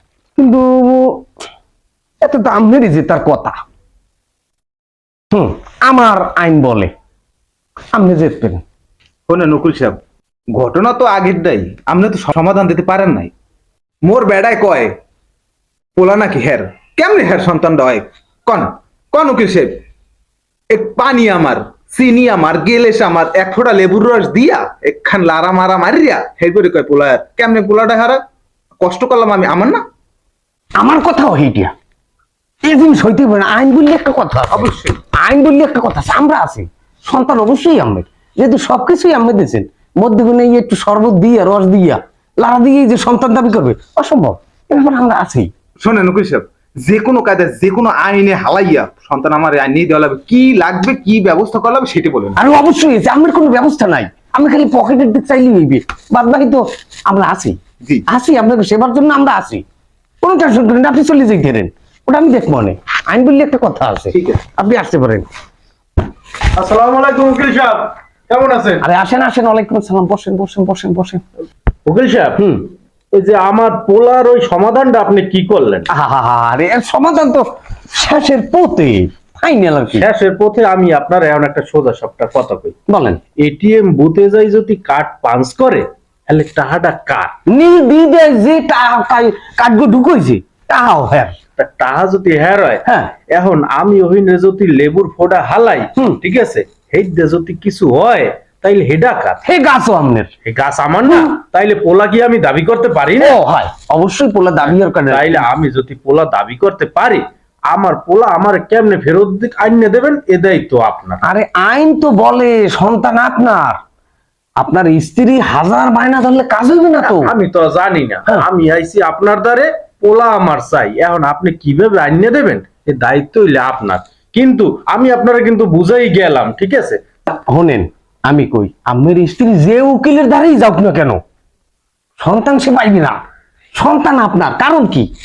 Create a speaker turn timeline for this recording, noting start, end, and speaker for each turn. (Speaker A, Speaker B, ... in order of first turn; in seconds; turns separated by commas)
Speaker A: 0.3-1.2, Speaker A: 2.2-3.5, Speaker A: 5.3-6.9, Speaker A: 7.9-8.6, Speaker B: 9.3-10.0, Speaker B: 10.5-13.3, Speaker B: 14.0-14.9, Speaker B: 15.9-19.8, Speaker B: 20.7-28.2, Speaker B: 28.8-29.8, Speaker A: 30.8-31.7, Speaker A: 32.6-45.5, Speaker B: 34.5-35.0, Speaker B: 45.8-52.4, Speaker A: 52.4-59.6, Speaker A: 60.2-65.3, Speaker C: 66.5-68.8, Speaker A: 68.8-71.2, Speaker C: 71.8-72.5, Speaker A: 72.4-72.7, Speaker C: 73.1-75.9, Speaker A: 75.9-80.1, Speaker C: 79.9-82.7, Speaker A: 82.9-83.2, Speaker C: 83.4-87.3, Speaker A: 87.5-91.3, Speaker C: 91.6-99.4, Speaker A: 92.8-93.1, Speaker A: 99.4-100.3, Speaker C: 100.4-103.4, Speaker A: 101.1-101.3, Speaker A: 103.2-105.5, Speaker C: 105.1-111.2, Speaker A: 111.2-113.8, Speaker A: 114.6-117.3, Speaker C: 117.0-127.0, Speaker A: 127.3-131.2, Speaker A: 132.2-133.2, Speaker A: 133.7-135.1